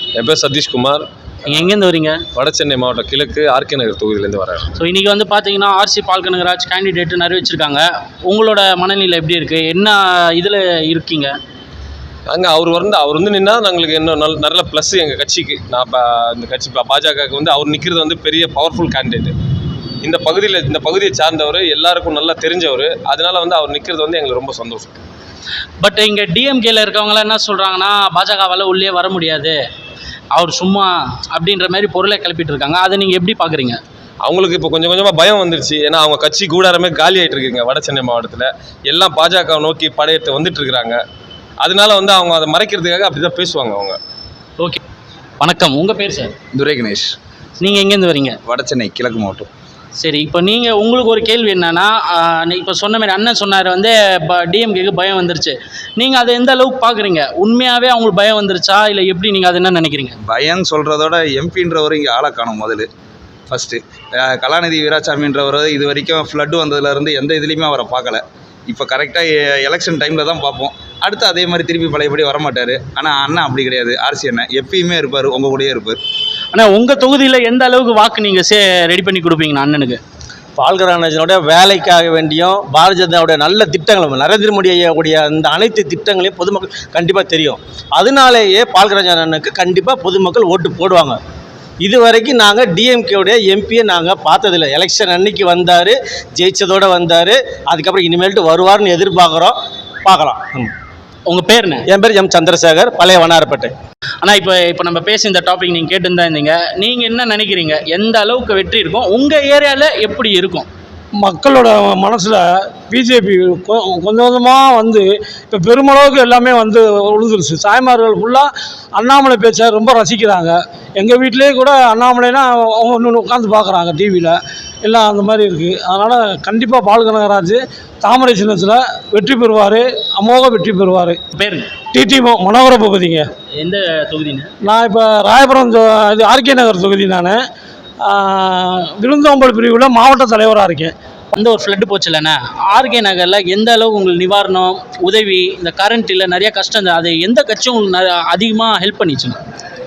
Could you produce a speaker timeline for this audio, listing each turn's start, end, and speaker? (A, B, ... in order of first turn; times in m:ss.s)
0:00.2-0:01.0 A
0:01.5-0:02.2 B
0:02.3-0:04.7 A
0:04.8-0:11.3 B
0:12.3-0:19.3 A
0:20.0-0:25.0 A
0:25.8-0:29.6 B
0:30.3-0:33.8 B
0:34.2-0:41.0 A
0:41.6-0:44.0 A
0:45.4-0:46.3 B
0:46.6-0:47.1 C
0:47.6-0:48.4 B
0:48.5-0:49.5 C
0:50.0-1:00.1 B
1:00.3-1:02.9 C
1:03.5-1:16.0 C
1:16.5-1:20.0 B
1:20.6-1:31.2 D
1:31.8-1:40.7 D
1:41.3-1:41.8 B
1:41.9-1:43.7 D
1:44.2-1:50.7 B
1:51.2-2:11.2 E
2:11.3-2:11.7 B
2:11.9-2:13.3 E
2:13.6-2:14.5 B
2:14.6-2:17.4 E
2:18.0-2:20.9 E
2:21.3-2:29.4 B